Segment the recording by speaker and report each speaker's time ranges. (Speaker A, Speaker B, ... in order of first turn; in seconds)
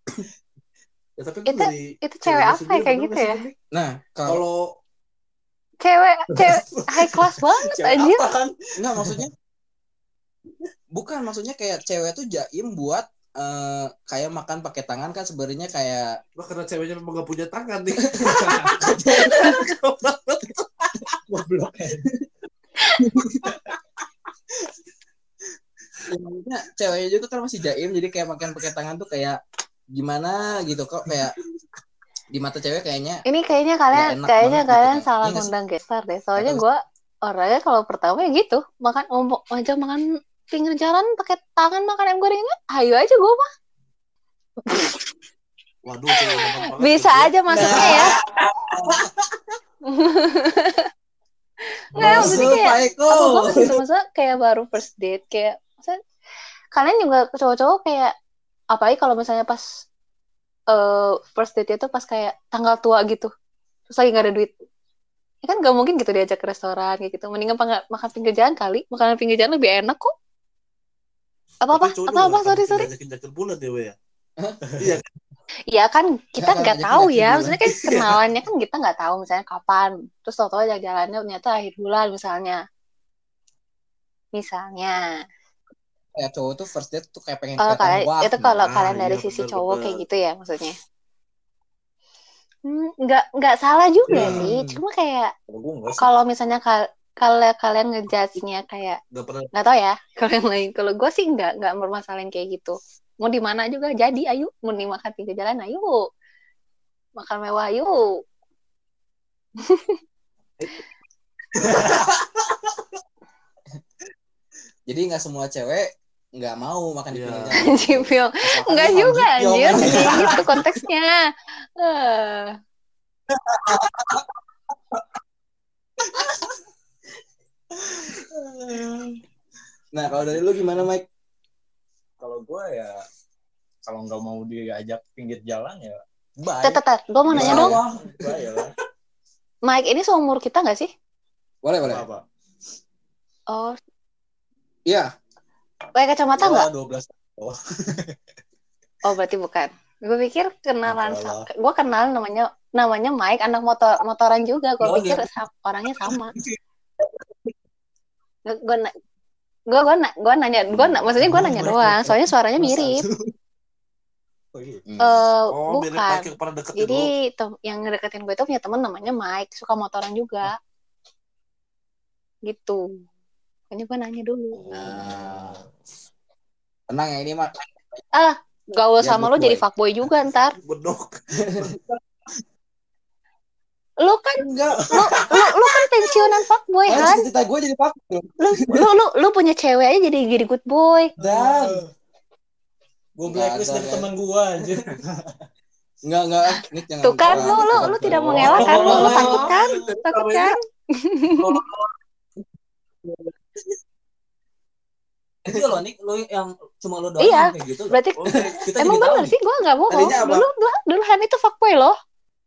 Speaker A: 1.2-3.5, 4.2-4.7, 16.4-20.9, 45.8-48.2, 52.0-52.5, 71.7-74.0, 74.8-75.0, 77.7-78.2, 88.6-90.0, 94.1-94.5, 95.5-96.1, 99.1-99.5, 117.1-117.7, 165.5-167.1, 180.6-181.8, 198.1-200.5, 201.4-201.9, 208.2-208.7
Speaker B: 1.4-3.4, 5.8-8.2, 33.2-43.5, 44.6-45.0, 46.1-48.1, 49.9-50.9, 51.6-56.0, 56.7-58.1, 58.7-59.6, 60.7-63.3, 63.9-64.5, 65.4-70.1, 71.6-72.9, 75.7-82.6, 84.3-85.2, 87.6-90.8, 92.7-95.3, 96.0-99.0, 99.5-106.0, 107.2-108.0, 109.6-109.9, 117.6-122.5, 136.6-137.8, 139.7-140.9, 145.9-146.7, 149.0-156.3, 158.4-158.9, 159.7-163.0, 165.0-170.6, 172.5-172.9, 173.7-175.0, 178.1-180.6, 184.0-187.3, 188.4-191.1, 197.0-201.6, 207.2-212.0
Speaker C: 3.7-4.4, 8.8-9.3, 10.9-16.2, 18.1-19.6, 23.0-23.6, 26.1-29.4, 29.9-31.4, 32.3-33.2, 33.9-35.5, 36.4-36.6, 47.5-48.8, 52.0-53.8, 74.4-74.7, 76.4-77.6, 86.2-88.5, 94.1-94.8, 114.9-120.7, 123.5-124.2, 129.9-131.1, 137.3-137.9, 141.6-142.0, 161.4-161.9, 164.9-165.3, 174.7-175.6, 176.9-178.0, 179.0-179.6, 181.4-181.8, 184.4-185.3, 186.9-188.9, 191.2-191.8, 193.3-194.1, 196.0-199.5, 205.5-205.8, 209.9-210.5
Speaker D: 6.7-9.3, 21.3-22.1, 118.8-119.1, 119.7-120.4, 127.7-129.2, 130.1-130.8, 132.2-133.0, 133.8-138.7, 141.8-142.2, 146.3-148.2, 150.8-151.5, 161.2-161.8, 164.5-164.8, 174.5-175.7, 191.2-191.9, 193.2-195.4, 197.6-199.9
Speaker E: 137.3-137.7, 154.8-155.2, 205.4-209.4